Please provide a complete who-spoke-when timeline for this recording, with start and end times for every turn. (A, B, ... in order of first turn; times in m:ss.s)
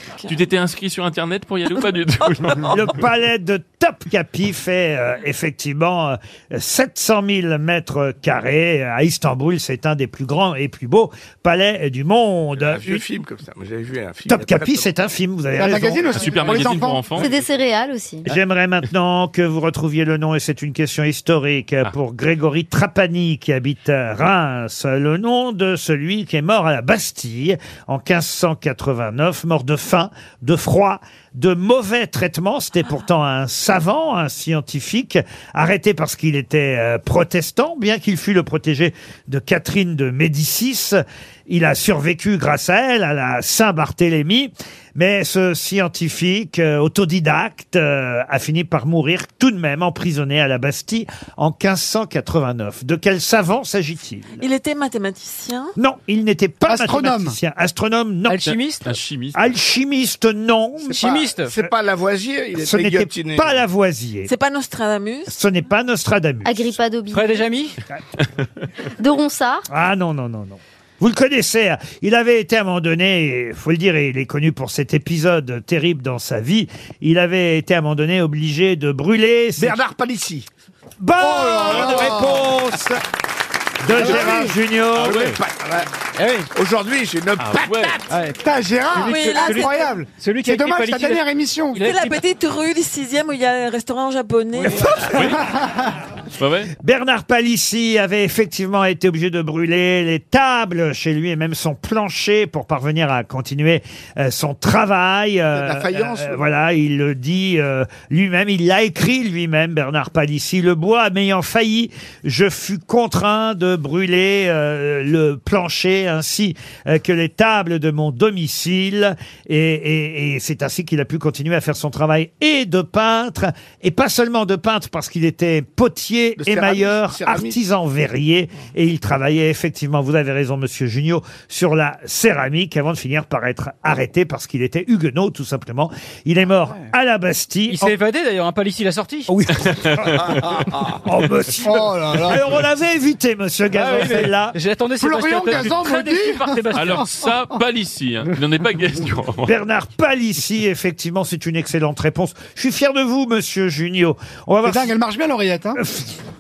0:00.2-0:02.9 A
0:02.7-0:13.0 B
0:12.6-0:14.9 C
0:14.3-0:16.7 B
0:15.6-0:17.1 D
0:16.1-0:17.3 A
0:17.2-0:18.3 E
0:18.2-0:54.4 B
0:54.4-0:55.8 F
0:55.8-0:58.5 B
0:56.6-0:57.4 D
0:58.3-0:58.9 G
0:58.8-0:59.4 A
0:59.3-1:01.0 B
1:00.9-1:03.6 C
1:00.9-1:01.5 G
1:02.6-1:04.3 B
1:04.3-1:05.3 F
1:05.3-1:06.8 B
1:06.4-1:07.4 E
1:07.1-1:07.8 G
1:09.0-1:09.7 E
1:09.7-1:19.8 B
1:19.6-1:20.5 C
1:21.0-1:23.0 B
1:21.2-1:22.5 D
1:23.8-1:25.2 B
1:23.9-1:24.6 D
1:24.0-1:24.3 C
1:25.0-1:25.4 A
1:25.0-1:25.9 C
1:26.2-1:26.5 G
1:26.5-1:28.1 C
1:27.4-1:28.0 A
1:28.1-1:28.4 G
1:28.4-1:31.9 D
1:28.9-1:32.2 G
1:29.0-1:30.0 F
1:31.8-1:35.0 F
1:34.6-1:35.3 B
1:35.0-1:35.4 A
1:35.3-1:35.9 D
1:36.4-1:36.7 A
1:36.8-2:18.0 B
1:45.5-1:46.4 C
2:06.4-2:07.6 C
2:17.7-2:19.3 G
2:19.3-2:24.6 B
2:19.8-2:20.1 A
2:21.6-2:22.5 D
2:23.7-2:27.1 G
2:25.0-2:27.0 D
2:26.7-2:29.5 A
2:29.4-2:35.0 B
2:34.6-2:35.8 D
2:35.8-2:36.2 B